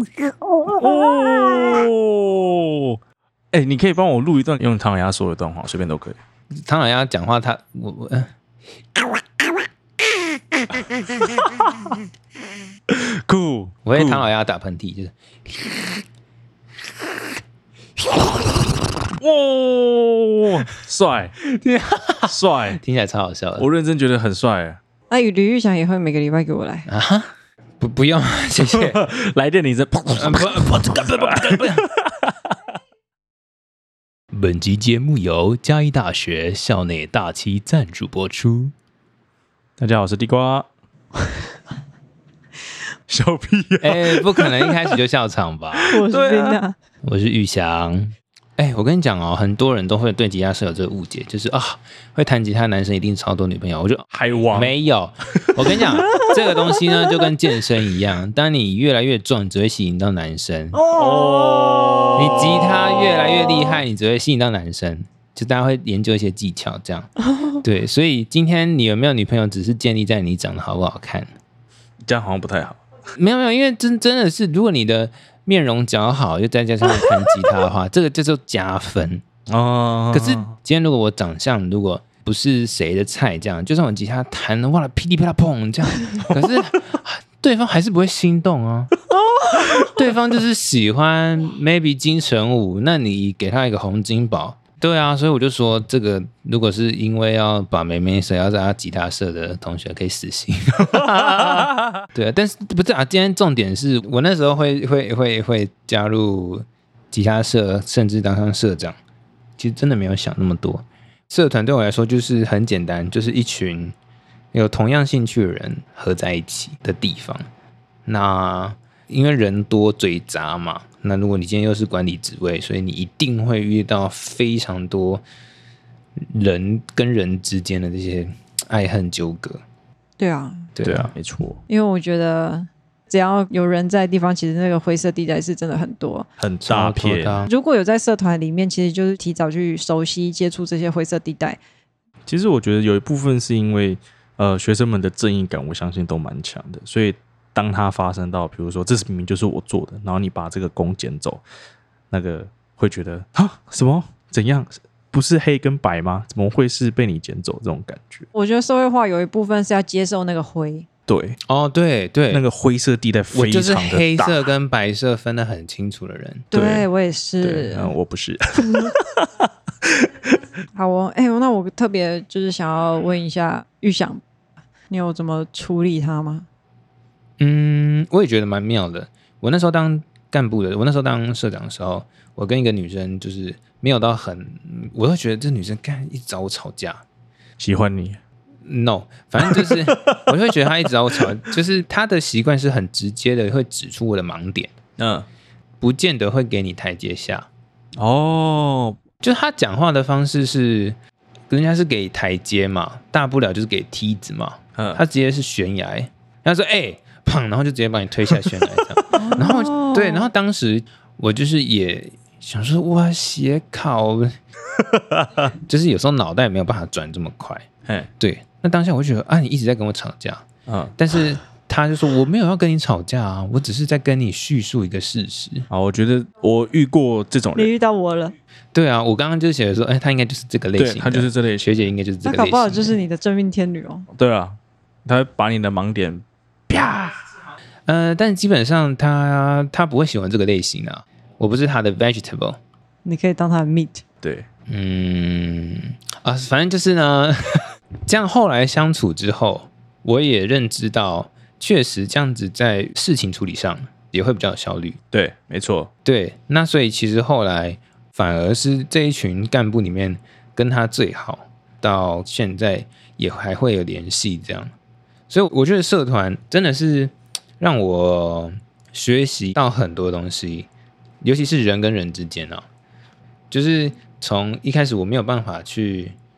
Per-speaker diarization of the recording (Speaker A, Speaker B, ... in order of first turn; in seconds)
Speaker A: 0.7-3.0, 3.5-6.2, 11.4-11.7, 12.9-14.2, 19.1-21.3, 22.3-22.8, 23.6-24.8, 28.7-32.2, 39.8-40.7, 43.1-45.0, 46.1-46.6, 54.1-54.7, 60.9-62.7, 72.0-72.8, 79.5-80.5, 130.8-131.6, 136.4-137.3, 142.3-151.4, 152.1-158.2, 161.1-161.4, 162.3-164.4, 166.5-166.9, 167.4-169.3, 170.0-170.4, 187.6-188.2, 189.4-190.3, 195.0-195.3, 198.0-199.0, 214.9-215.3, 220.7-220.9, 225.7-227.7, 230.8-231.7, 234.1-236.2, 255.1-255.9
Speaker B: 6.6-8.3, 13.8-15.7, 21.4-23.7, 26.9-29.0, 30.1-31.8, 34.3-38.7, 43.8-46.0, 47.0-60.8, 62.1-71.3, 73.1-79.2, 80.1-88.9, 89.6-109.0, 109.6-114.0, 114.5-117.4, 118.0-125.2, 126.3-129.6, 130.8-131.1, 136.6-137.5, 161.5-162.4, 163.3-166.5, 177.4-187.0, 188.6-194.8, 195.8-197.5, 199.2-201.0, 201.5-214.3, 215.6-217.7, 218.2-220.4, 220.9-225.7, 228.7-233.0, 236.7-237.2, 237.8-242.6, 244.7-255.0, 256.0-264.7, 265.3-270.7, 271.2-272.6, 273.5-276.1
Speaker C: 25.1-26.9, 45.9-46.8, 56.0-57.2, 60.7-62.7, 63.5-63.8, 89.2-89.9, 130.2-130.7, 131.7-136.3, 137.5-141.6, 158.3-160.8, 166.5-167.9, 170.7-174.2, 174.9-176.4, 209.1-210.3, 227.5-228.3, 232.2-234.1, 243.0-244.0